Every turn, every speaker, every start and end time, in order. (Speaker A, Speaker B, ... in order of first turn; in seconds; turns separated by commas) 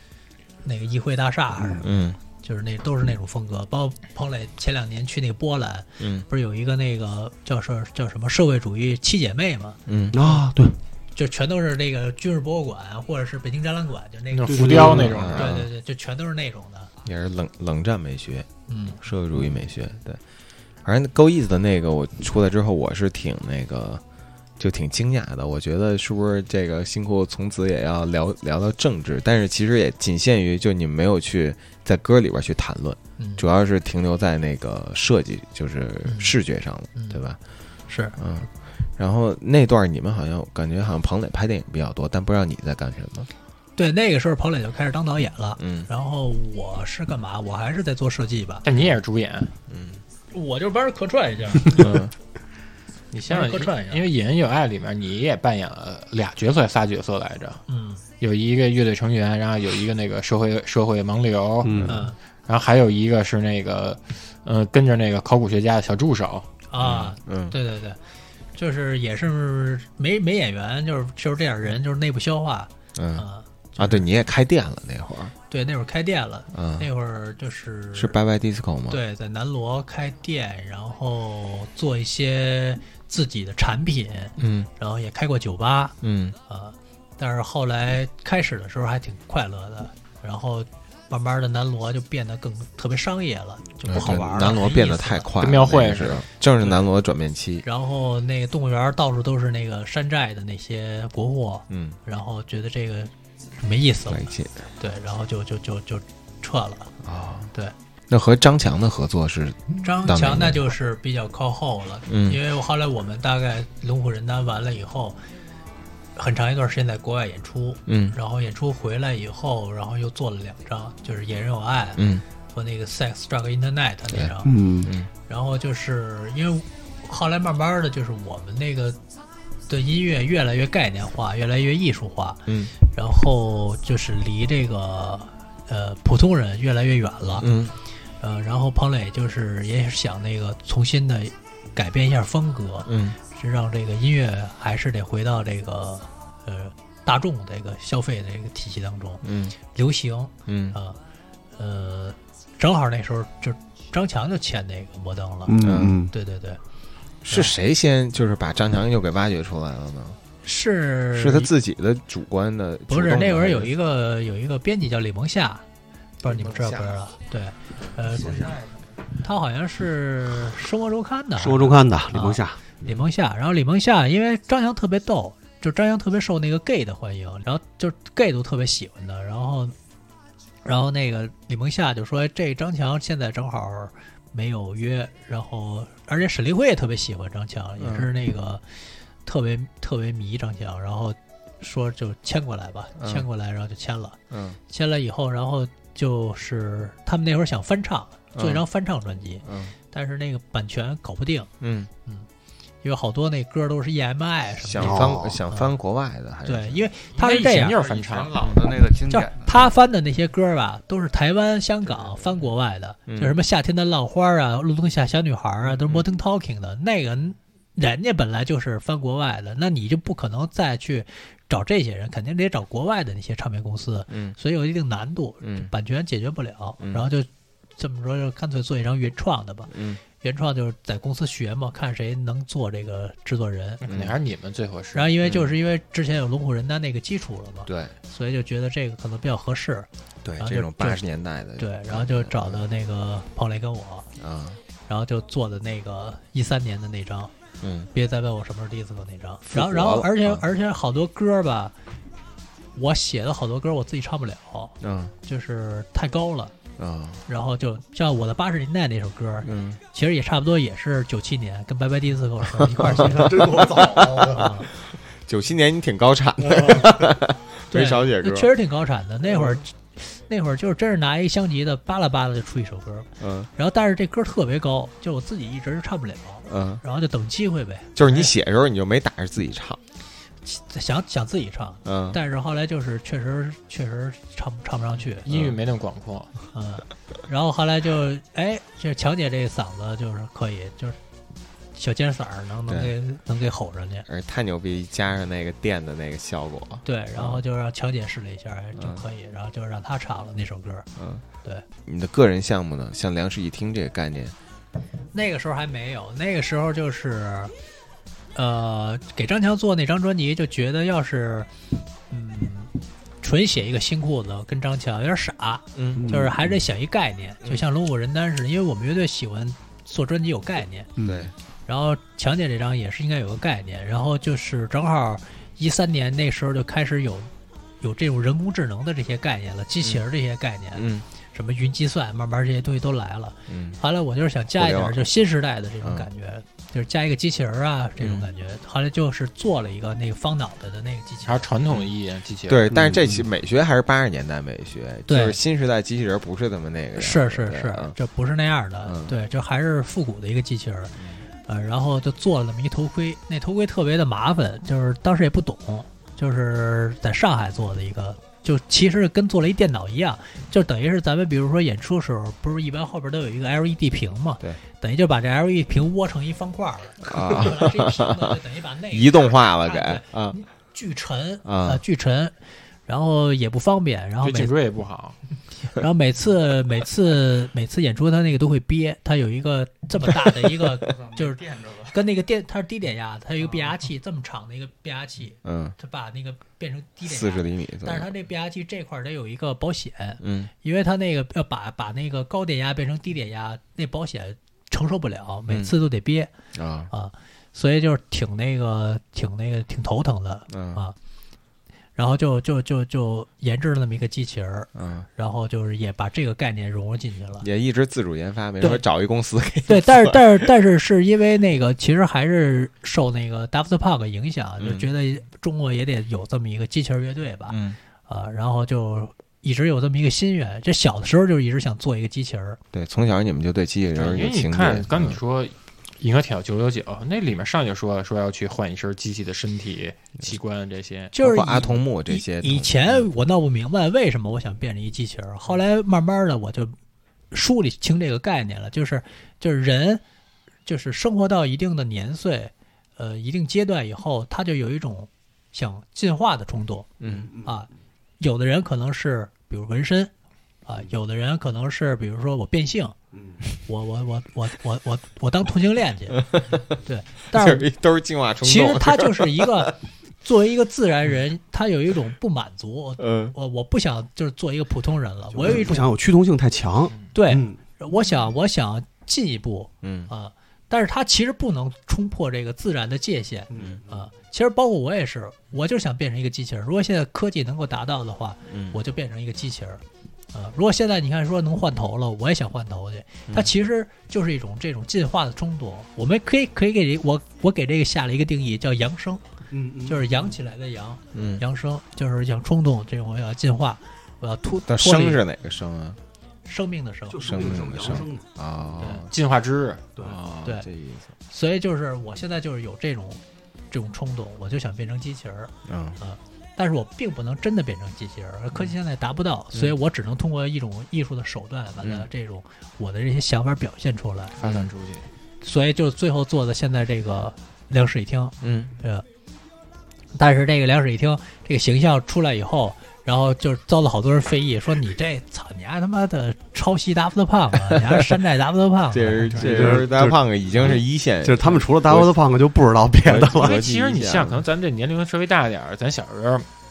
Speaker A: 0.6-10.4, Speaker B: 1.8-2.2, Speaker B: 6.0-6.2, Speaker B: 9.9-10.2, Speaker C: 10.1-10.7, Speaker A: 11.1-16.9, Speaker D: 14.3-15.5, Speaker C: 14.5-15.3, Speaker B: 15.1-15.7, Speaker B: 17.0-18.5, Speaker A: 18.7-19.0, Speaker B: 19.0-20.2, Speaker B: 20.8-24.0, Speaker B: 24.6-37.4, Speaker A: 33.2-33.4, Speaker A: 36.0-36.3, Speaker A: 36.9-37.2, Speaker A: 37.9-38.2, Speaker B: 38.2-43.3, Speaker A: 43.8-48.6, Speaker B: 45.6-45.9, Speaker D: 48.6-49.5, Speaker B: 49.7-50.0, Speaker A: 50.3-52.0, Speaker B: 51.7-52.1, Speaker D: 53.1-57.6, Speaker A: 53.3-54.0, Speaker A: 57.7-58.0, Speaker D: 58.2-61.9, Speaker C: 61.6-62.0, Speaker B: 61.6-62.0, Speaker A: 61.9-62.2, Speaker D: 62.5-66.5, Speaker A: 66.7-68.0, Speaker B: 66.8-67.5, Speaker A: 68.5-74.0, Speaker B: 73.0-73.2, Speaker B: 73.8-75.3, Speaker A: 75.5-78.2, Speaker B: 76.5-76.9, Speaker B: 77.9-79.0, Speaker A: 78.9-86.0, Speaker B: 84.4-84.7, Speaker B: 86.0-86.4, Speaker A: 86.5-95.3, Speaker B: 93.8-97.7, Speaker D: 95.4-96.8, Speaker A: 97.6-104.2, Speaker B: 101.7-102.0, Speaker B: 104.1-104.6, Speaker A: 104.8-106.9, Speaker B: 107.0-107.5, Speaker B: 108.1-110.6, Speaker A: 109.8-115.2, Speaker B: 112.1-112.4, Speaker A: 116.2-124.6, Speaker B: 117.9-118.2, Speaker B: 122.0-122.2, Speaker B: 124.1-125.1, Speaker C: 124.4-124.9, Speaker A: 125.3-129.0, Speaker A: 129.7-137.5, Speaker B: 132.5-132.7, Speaker B: 137.4-137.8, Speaker A: 138.2-151.0, Speaker B: 142.8-143.2, Speaker B: 149.2-149.5, Speaker B: 150.5-150.8, Speaker A: 151.6-156.6, Speaker C: 155.4-156.1, Speaker B: 155.6-156.0, Speaker B: 157.2-160.2, Speaker A: 160.4-161.5, Speaker B: 161.1-163.7, Speaker A: 162.9-165.6, Speaker A: 166.2-168.6, Speaker B: 166.2-167.0, Speaker A: 169.2-179.7, Speaker C: 171.4-172.6, Speaker A: 180.6-188.6, Speaker B: 187.8-188.1, Speaker A: 189.2-201.5, Speaker B: 193.0-193.2, Speaker B: 194.3-194.6, Speaker B: 198.3-198.6, Speaker B: 199.4-199.7, Speaker B: 201.6-201.9, Speaker A: 202.8-205.7, Speaker B: 204.6-206.8, Speaker C: 204.8-205.4, Speaker A: 206.4-207.8, Speaker D: 207.1-208.6, Speaker E: 207.8-209.5, Speaker A: 209.1-233.8, Speaker B: 213.1-213.4, Speaker B: 224.1-224.3, Speaker B: 225.4-225.7, Speaker B: 226.8-227.1, Speaker B: 229.7-230.0, Speaker D: 233.8-235.1, Speaker B: 233.8-234.2, Speaker A: 234.9-239.9, Speaker B: 235.2-235.6, Speaker B: 237.7-237.9, Speaker B: 240.2-242.6, Speaker A: 240.4-241.0, Speaker A: 241.6-244.1, Speaker B: 244.2-244.6, Speaker A: 244.9-247.3, Speaker B: 247.6-247.9, Speaker A: 247.9-251.7, Speaker B: 249.4-250.4, Speaker A: 252.7-256.5, Speaker B: 254.8-255.1, Speaker B: 256.8-257.2, Speaker A: 257.3-263.6, Speaker B: 259.4-259.8, Speaker B: 262.7-264.6, Speaker C: 262.8-264.4, Speaker A: 264.2-264.7, Speaker B: 265.2-268.5, Speaker A: 267.7-278.3, Speaker B: 273.2-273.5, Speaker B: 276.4-276.8, Speaker B: 277.9-279.8, Speaker A: 280.4-285.2, Speaker B: 281.8-282.2, Speaker D: 285.2-286.3, Speaker B: 285.3-285.6, Speaker A: 286.5-291.0, Speaker A: 291.8-294.1, Speaker B: 292.7-292.9, Speaker B: 294.1-297.4, Speaker A: 296.8-300.9, Speaker B: 298.8-299.0, Speaker B: 301.0-301.2, Speaker B: 301.8-304.3, Speaker A: 305.1-307.5, Speaker A: 308.3-311.5, Speaker A: 312.1-320.9, Speaker B: 315.7-316.1, Speaker C: 315.9-316.6, Speaker C: 321.0-321.3, Speaker B: 321.0-321.3, Speaker A: 321.6-327.3, Speaker A: 327.8-341.4, Speaker B: 330.7-331.1, Speaker B: 333.5-333.8, Speaker B: 334.5-335.1, Speaker B: 335.8-336.1, Speaker B: 338.0-338.3, Speaker D: 341.2-342.7, Speaker B: 342.5-347.9, Speaker C: 342.7-343.2, Speaker A: 345.1-345.4, Speaker A: 347.0-350.9, Speaker B: 348.8-349.1, Speaker A: 351.5-372.3, Speaker B: 367.0-368.4, Speaker B: 368.9-370.4, Speaker B: 371.4-371.8, Speaker A: 372.9-374.5, Speaker D: 374.2-375.2, Speaker A: 375.8-396.3, Speaker B: 380.1-380.8, Speaker E: 380.9-381.8, Speaker B: 385.4-385.8, Speaker B: 387.0-388.1, Speaker B: 390.2-390.5, Speaker B: 395.5-395.7, Speaker B: 396.5-396.9, Speaker A: 396.9-400.9, Speaker B: 400.5-400.8, Speaker A: 401.9-407.4, Speaker B: 404.8-405.1, Speaker B: 407.4-410.5, Speaker A: 409.6-422.6, Speaker B: 414.6-414.9, Speaker B: 417.5-417.8, Speaker B: 422.7-425.2, Speaker D: 423.9-431.1, Speaker A: 431.1-436.7, Speaker B: 431.1-433.1, Speaker A: 437.3-440.0, Speaker A: 440.6-446.9, Speaker B: 447.0-447.3, Speaker C: 447.1-447.5, Speaker A: 447.4-447.7, Speaker A: 448.2-450.1, Speaker A: 450.6-452.9, Speaker C: 453.1-453.4, Speaker A: 453.6-456.2, Speaker B: 456.1-456.8, Speaker A: 456.8-457.7, Speaker B: 457.3-459.8, Speaker A: 458.4-465.9, Speaker B: 463.0-463.3, Speaker C: 465.3-467.6, Speaker A: 467.1-479.8, Speaker B: 469.8-470.1, Speaker C: 473.5-474.1, Speaker B: 473.5-473.8, Speaker B: 478.5-478.8, Speaker A: 480.3-489.2, Speaker C: 489.5-490.4, Speaker A: 489.9-495.2, Speaker B: 491.1-491.4, Speaker B: 494.6-496.0, Speaker A: 496.4-497.5, Speaker C: 497.1-498.2, Speaker B: 497.2-499.1, Speaker A: 498.8-499.0, Speaker D: 499.1-499.8, Speaker B: 500.0-501.1, Speaker A: 501.3-514.3, Speaker B: 505.7-506.0, Speaker B: 511.8-512.1, Speaker D: 514.4-515.0, Speaker B: 514.4-514.7, Speaker A: 515.4-519.0, Speaker B: 518.4-518.7, Speaker A: 520.1-529.7, Speaker B: 528.9-532.1, Speaker C: 529.3-533.6, Speaker B: 533.0-534.4, Speaker D: 533.4-536.5